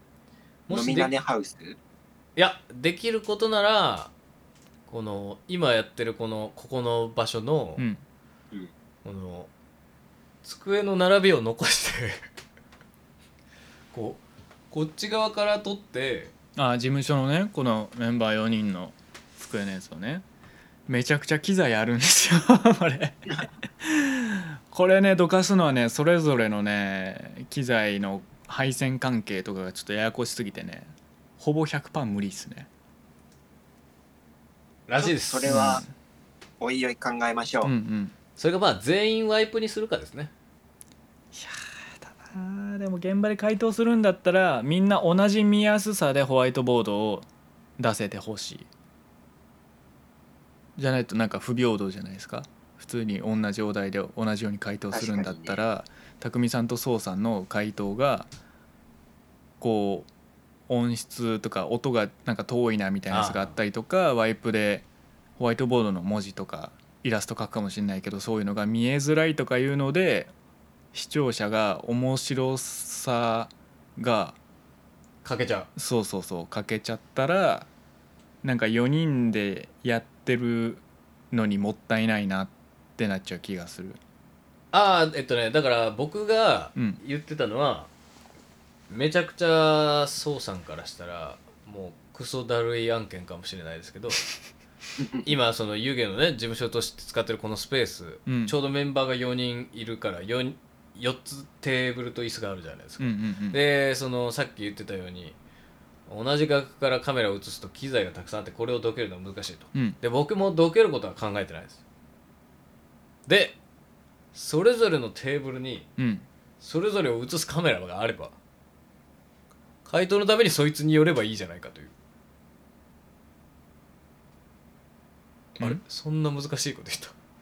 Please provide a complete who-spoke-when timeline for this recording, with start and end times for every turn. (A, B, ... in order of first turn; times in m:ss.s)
0:00.7-0:01.1 A
0:00.7-0:01.8 B
0:02.4-0:04.1 A
0:04.9-0:07.8 A
0:07.8-0:08.0 C
0:09.0-0:09.5 A
0:10.4-0:12.2 A
0:13.9-0:16.3 A
0:16.6-0:20.2 C
0:20.9-0:23.3 C
0:23.8-0:32.7 C
0:34.9-0:35.6 A
0:35.0-0:35.8 B
0:35.5-0:35.9 C
0:36.6-0:37.7 B
0:37.6-0:38.1 C
0:38.4-0:40.3 A
0:41.3-0:47.3 C
0:47.8-0:48.7 C
0:50.8-0:58.3 C
0:54.9-0:55.6 B
0:59.6-1:00.1 C
1:00.7-1:04.8 C
1:03.1-1:03.6 A
1:05.4-1:10.3 C
1:10.9-1:14.4 C
1:15.2-1:15.7 A
1:15.8-1:17.7 C
1:18.4-1:24.0 C
1:24.7-1:27.9 A
1:26.8-1:27.0 C
1:28.9-1:34.2 A
1:35.2-1:45.4 A
1:38.3-1:38.6 C
1:43.0-1:43.6 C
1:46.1-1:51.8 A
1:53.3-1:53.6 A
1:54.3-1:55.9 A
1:56.0-1:56.3 C
1:56.6-1:58.4 A
1:59.9-2:01.9 A
2:05.6-2:07.1 A